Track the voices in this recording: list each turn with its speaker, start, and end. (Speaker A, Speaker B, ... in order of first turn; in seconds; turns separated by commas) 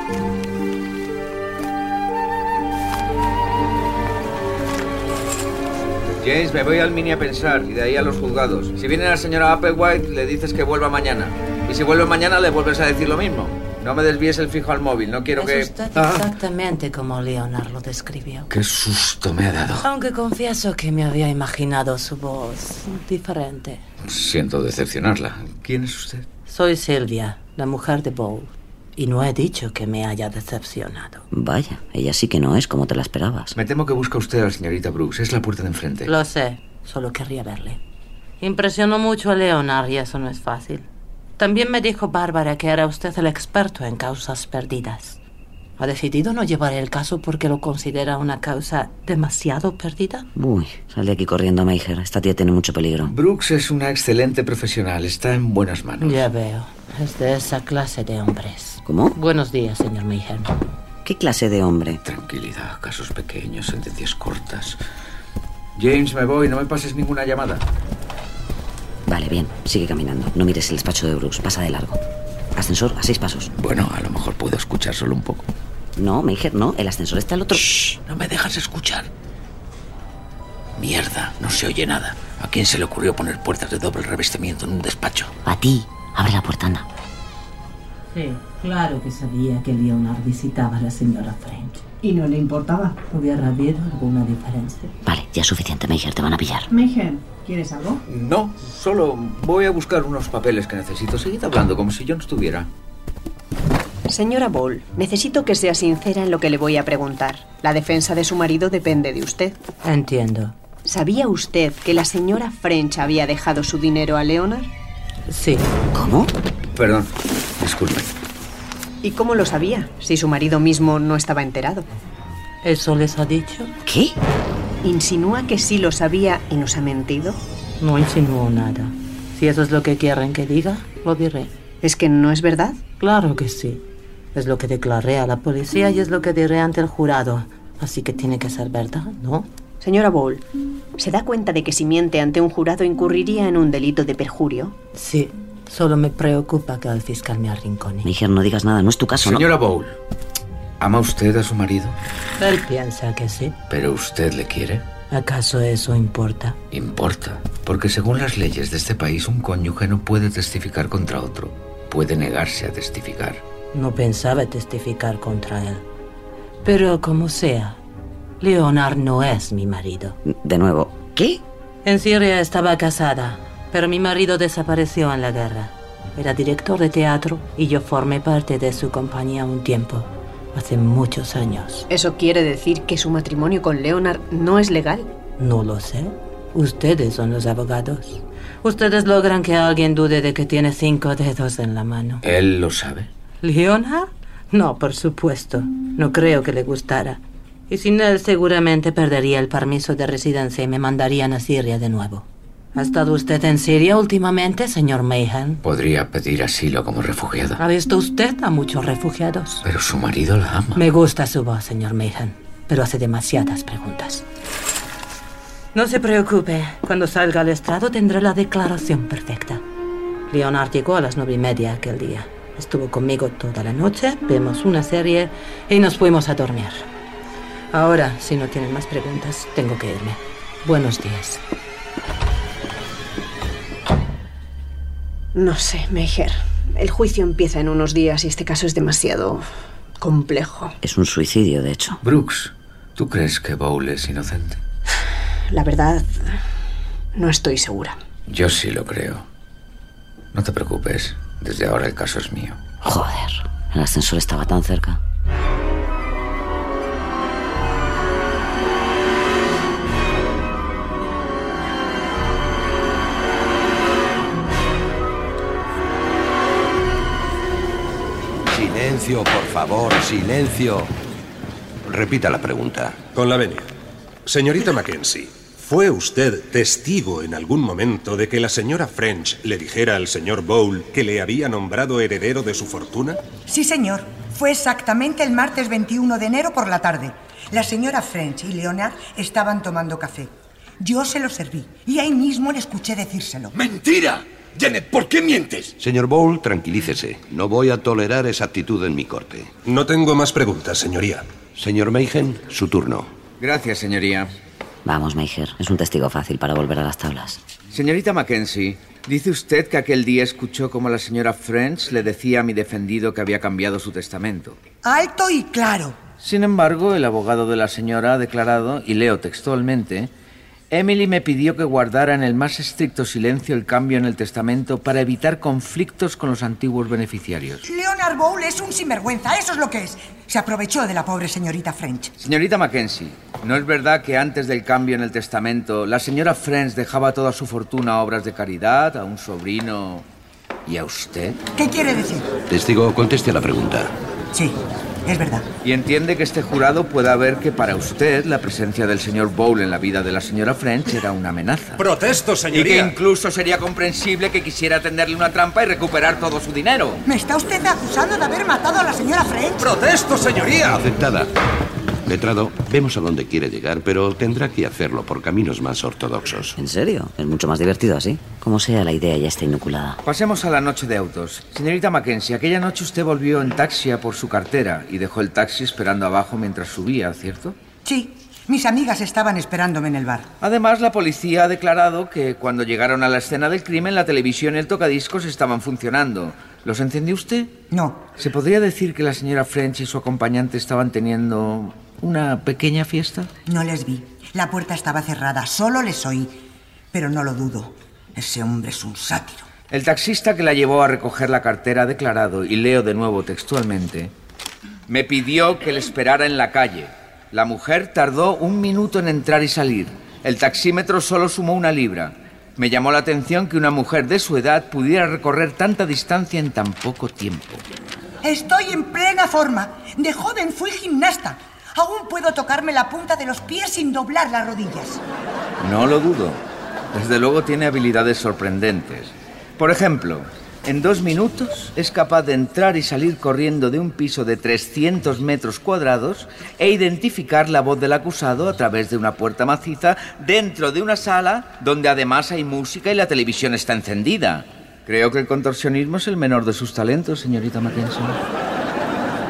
Speaker A: 6.2-16.3, Speaker B: 15.4-18.5, Speaker A: 18.5-19.9, Speaker B: 19.8-23.8, Speaker A: 24.0-26.3, Speaker B: 26.5-31.2, Speaker C: 31.3-33.6, Speaker A: 33.6-36.1, Speaker B: 36.1-37.8, Speaker B: 38.4-40.9, Speaker B: 41.4-45.2, Speaker B: 45.8-50.3, Speaker C: 50.4-53.1, Speaker A: 53.1-56.3, Speaker B: 56.0-60.5, Speaker C: 58.9-59.2, Speaker C: 61.0-62.0, Speaker A: 62.0-64.8, Speaker A: 65.8-67.7, Speaker C: 69.1-72.0, Speaker C: 72.6-73.5, Speaker A: 73.6-75.5, Speaker C: 76.0-77.9, Speaker A: 77.6-79.1, Speaker A: 80.8-85.3, Speaker C: 85.5-86.9, Speaker B: 88.1-91.8, Speaker D: 92.0-93.0, Speaker B: 93.1-94.9, Speaker C: 95.0-96.7, Speaker D: 96.7-98.0, Speaker A: 98.1-102.7, Speaker D: 104.1-109.6, Speaker B: 109.8-110.5, Speaker D: 110.8-114.7, Speaker B: 115.3-115.7, Speaker C: 115.9-116.3, Speaker A: 116.8-118.2, Speaker D: 119.0-121.9, Speaker B: 122.6-123.8, Speaker C: 123.8-124.2, Speaker D: 124.8-127.4, Speaker B: 127.8-131.5, Speaker D: 131.8-132.8, Speaker B: 133.0-139.5, Speaker D: 139.8-140.5, Speaker D: 141.0-144.8, Speaker B: 144.9-148.1, Speaker C: 148.0-149.5, Speaker A: 149.2-150.0, Speaker A: 150.8-152.0, Speaker B: 152.4-153.6, Speaker A: 153.7-154.9, Speaker B: 155.1-156.6, Speaker A: 156.7-163.4, Speaker B: 163.7-165.8, Speaker B: 166.6-167.8, Speaker B: 168.4-170.2, Speaker C: 170.2-171.4, Speaker B: 171.8-181.9, Speaker D: 181.9-185.1, Speaker B: 185.4-192.2, Speaker A: 192.2-193.1, Speaker B: 193.4-205.6, Speaker A: 205.6-207.6, Speaker B: 207.6-209.6, Speaker A: 209.6-210.8, Speaker B: 210.8-214.2, Speaker B: 215.7-219.6, Speaker B: 220.3-226.8, Speaker B: 227.7-231.4, Speaker D: 235.3-239.4, Speaker D: 240.0-240.8, Speaker C: 240.8-242.0, Speaker A: 242.0-244.6, Speaker D: 245.5-246.4, Speaker D: 247.2-248.0, Speaker A: 248.3-249.2, Speaker A: 250.3-252.6, Speaker C: 252.8-255.0, Speaker E: 268.5-270.9, Speaker E: 271.9-273.0, Speaker F: 273.1-273.7, Speaker F: 274.2-283.2, Speaker G: 283.4-293.5, Speaker H: 293.6-295.8, Speaker E: 295.8-299.5, Speaker F: 299.6-301.3, Speaker E: 301.6-303.1, Speaker A: 303.4-304.3, Speaker C: 304.8-307.4, Speaker A: 307.7-314.6, Speaker G: 314.8-316.0, Speaker A: 316.2-320.1, Speaker A: 320.7-327.6, Speaker G: 327.6-332.1, Speaker A: 332.2-340.1, Speaker A: 340.7-341.4, Speaker G: 341.6-342.3, Speaker E: 342.5-343.9, Speaker G: 344.3-345.5, Speaker A: 345.6-351.9, Speaker F: 351.8-352.9, Speaker A: 352.5-357.1, Speaker G: 357.1-359.8, Speaker F: 359.6-360.9, Speaker E: 360.6-361.3, Speaker E: 362.1-366.6, Speaker C: 366.6-370.0, Speaker A: 370.0-377.6, Speaker G: 377.8-380.3, Speaker A: 380.4-387.6, Speaker G: 387.7-388.1, Speaker A: 388.1-393.3, Speaker G: 393.5-396.4, Speaker G: 396.9-399.5, Speaker A: 399.7-404.1, Speaker A: 404.9-417.6, Speaker G: 418.2-425.0, Speaker A: 425.6-426.4, Speaker A: 426.9-448.2